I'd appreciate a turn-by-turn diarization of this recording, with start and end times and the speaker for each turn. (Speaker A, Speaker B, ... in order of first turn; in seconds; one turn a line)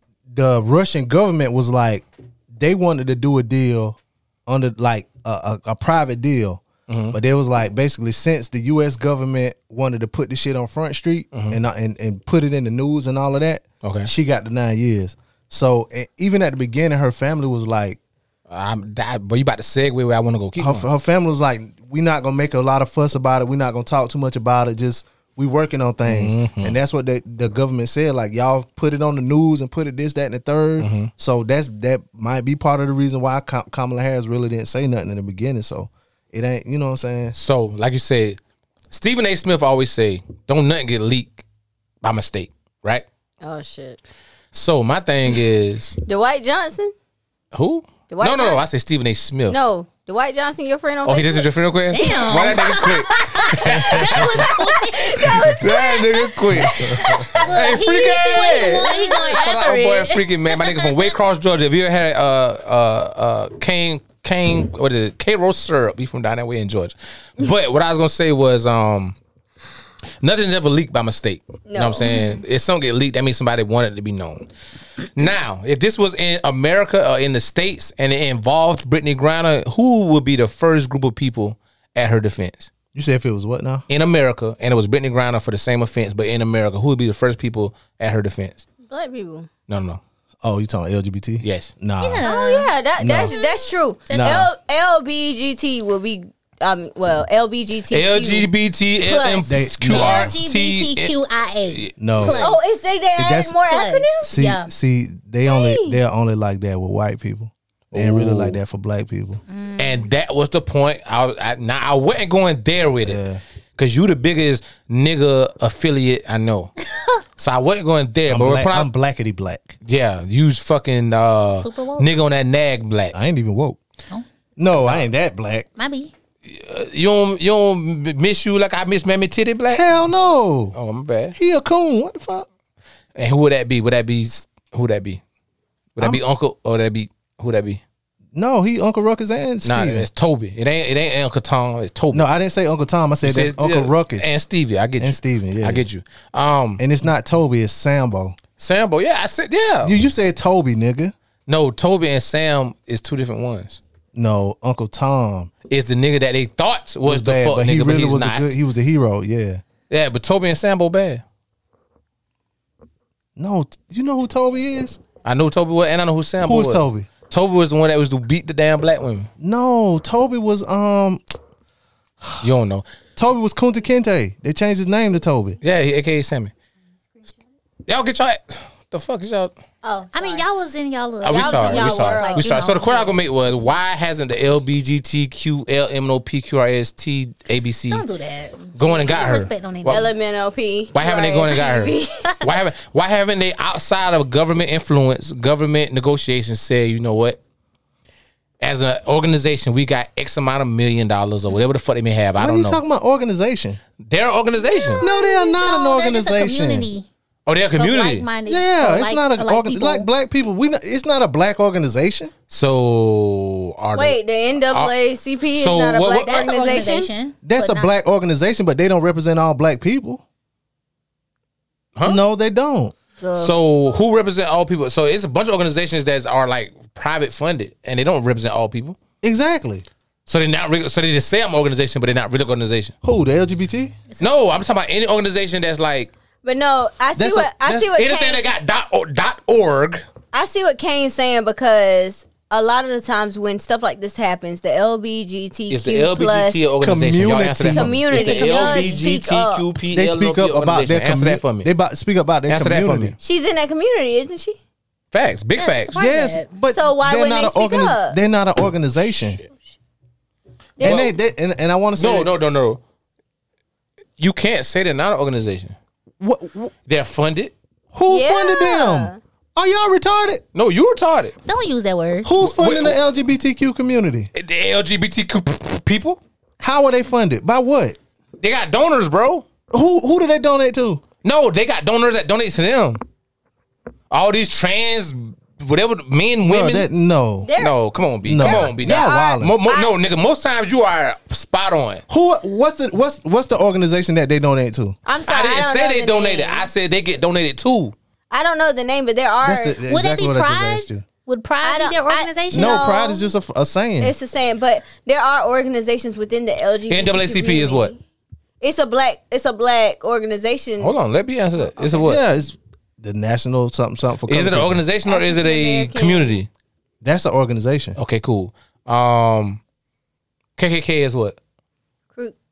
Speaker A: 0.3-18.0
Speaker B: 6.9-7.1
Speaker B: 11.3-11.6
Speaker B: 13.8-14.1
Speaker B: 18.5-20.9
Speaker A: 20.6-37.3
Speaker B: 26.1-26.7
Speaker B: 30.8-31.1
Speaker B: 37.3-38.4
Speaker B: 38.9-41.4
Speaker B: 42.0-43.0
Speaker C: 43.4-44.0
Speaker B: 44.5-46.0
Speaker C: 46.0-46.9
Speaker B: 47.5-49.6
Speaker C: 48.1-48.6
Speaker C: 49.5-59.5
Speaker B: 51.0-54.6
Speaker D: 51.9-55.6
Speaker A: 53.7-54.1
Speaker B: 55.5-69.2
Speaker A: 56.5-57.3
Speaker D: 57.4-61.1
Speaker B: 70.2-74.5
Speaker C: 71.7-72.2
Speaker D: 72.0-72.4
Speaker B: 75.1-82.7
Speaker A: 82.9-83.8
Speaker B: 83.9-88.7
Speaker C: 88.9-89.5
Speaker B: 89.7-90.0
Speaker A: 90.4-92.3
Speaker B: 91.4-91.7
Speaker D: 92.0-92.7
Speaker C: 92.2-98.5
Speaker A: 93.0-93.3
Speaker D: 93.3-94.5
Speaker A: 94.1-94.5
Speaker B: 97.9-101.1
Speaker C: 99.0-99.5
Speaker A: 99.5-100.3
Speaker D: 99.8-102.6
Speaker A: 102.0-102.5
Speaker C: 102.2-104.3
Speaker A: 103.2-103.6
Speaker D: 103.6-104.7
Speaker A: 104.3-109.4
Speaker C: 105.4-106.0
Speaker B: 107.9-108.6
Speaker D: 109.5-110.1
Speaker B: 109.8-113.2
Speaker A: 113.0-113.4
Speaker B: 113.8-116.7
Speaker B: 117.4-118.9
Speaker A: 118.3-119.8
Speaker B: 119.8-123.1
Speaker D: 121.5-122.1
Speaker A: 123.1-123.8
Speaker A: 124.6-125.7
Speaker B: 124.8-125.0
Speaker D: 125.8-126.1
Speaker B: 126.5-129.8
Speaker A: 129.7-130.7
Speaker B: 130.7-131.3
Speaker A: 131.3-132.4
Speaker B: 133.2-135.2
Speaker B: 135.9-137.8
Speaker A: 138.3-140.1
Speaker B: 139.6-142.2
Speaker A: 142.1-144.4
Speaker B: 143.2-146.8
Speaker A: 145.0-145.8
Speaker A: 146.8-148.4
Speaker B: 148.6-149.9
Speaker A: 149.8-151.1
Speaker B: 151.5-153.8
Speaker A: 154.1-155.5
Speaker B: 155.7-158.5
Speaker A: 157.0-159.6
Speaker B: 159.9-161.2
Speaker A: 163.4-165.0
Speaker B: 165.2-169.3
Speaker A: 166.4-167.1
Speaker A: 169.4-171.2
Speaker B: 172.4-172.8
Speaker A: 173.2-175.6
Speaker B: 175.6-176.5
Speaker B: 177.9-179.5
Speaker C: 179.8-180.4
Speaker D: 180.1-183.2
Speaker B: 181.2-188.0
Speaker C: 181.3-182.9
Speaker D: 187.9-190.1
Speaker B: 188.7-190.1
Speaker C: 189.8-192.2
Speaker B: 190.9-197.4
Speaker B: 198.6-202.8
Speaker A: 202.4-203.8
Speaker B: 204.0-205.0
Speaker D: 205.0-207.1
Speaker A: 205.0-206.9
Speaker B: 207.4-208.3
Speaker D: 207.8-210.1
Speaker A: 208.4-212.3
Speaker B: 212.5-214.2
Speaker C: 213.9-217.1
Speaker B: 214.7-214.9
Speaker B: 215.5-216.4
Speaker D: 216.2-217.9
Speaker A: 217.4-220.2
Speaker A: 222.0-222.9
Speaker C: 223.2-223.5
Speaker B: 223.4-229.0
Speaker A: 229.2-229.8
Speaker B: 230.3-232.9
Speaker A: 233.0-233.9
Speaker B: 234.2-236.1
Speaker C: 236.4-238.4
Speaker A: 237.2-237.9
Speaker B: 237.9-240.0
Speaker C: 240.3-246.7
Speaker B: 245.7-251.7
Speaker A: 246.8-248.0
Speaker C: 247.7-249.7
Speaker D: 248.1-249.0
Speaker A: 249.9-253.1
Speaker B: 252.5-253.1
Speaker C: 253.2-254.6
Speaker B: 255.1-255.9
Speaker D: 255.6-256.4
Speaker A: 255.9-259.4
Speaker C: 256.7-258.2
Speaker C: 260.8-261.1
Speaker A: 260.8-262.6
Speaker B: 260.8-261.1
Speaker B: 262.0-262.8
Speaker B: 264.2-265.7
Speaker A: 266.2-266.7
Speaker B: 266.9-267.5
Speaker A: 267.9-270.4
Speaker C: 268.1-269.2
Speaker B: 270.5-271.4
Speaker D: 271.4-272.3
Speaker A: 272.2-274.3
Speaker B: 272.4-273.0
Speaker B: 274.3-276.2
Speaker A: 276.6-278.0
Speaker B: 278.4-279.5
Speaker A: 279.7-281.0
Speaker B: 281.2-283.0
Speaker B: 284.1-286.9
Speaker A: 286.4-287.5
Speaker C: 287.4-287.8
Speaker B: 287.6-292.0
Speaker A: 288.2-289.5
Speaker C: 288.4-289.9
Speaker A: 292.1-295.0
Speaker C: 295.1-296.7
Speaker B: 295.2-297.9
Speaker C: 298.3-299.8
Speaker A: 299.4-301.1
Speaker D: 299.9-302.9
Speaker C: 301.6-303.3
Speaker A: 302.5-304.1
Speaker C: 304.0-308.0
Speaker B: 306.9-307.9
Speaker C: 308.6-310.9
Speaker B: 310.8-312.2
Speaker A: 311.8-314.8
Speaker B: 314.3-316.5
Speaker C: 315.1-316.4
Speaker A: 317.0-318.0
Speaker B: 317.9-319.6
Speaker B: 320.6-321.4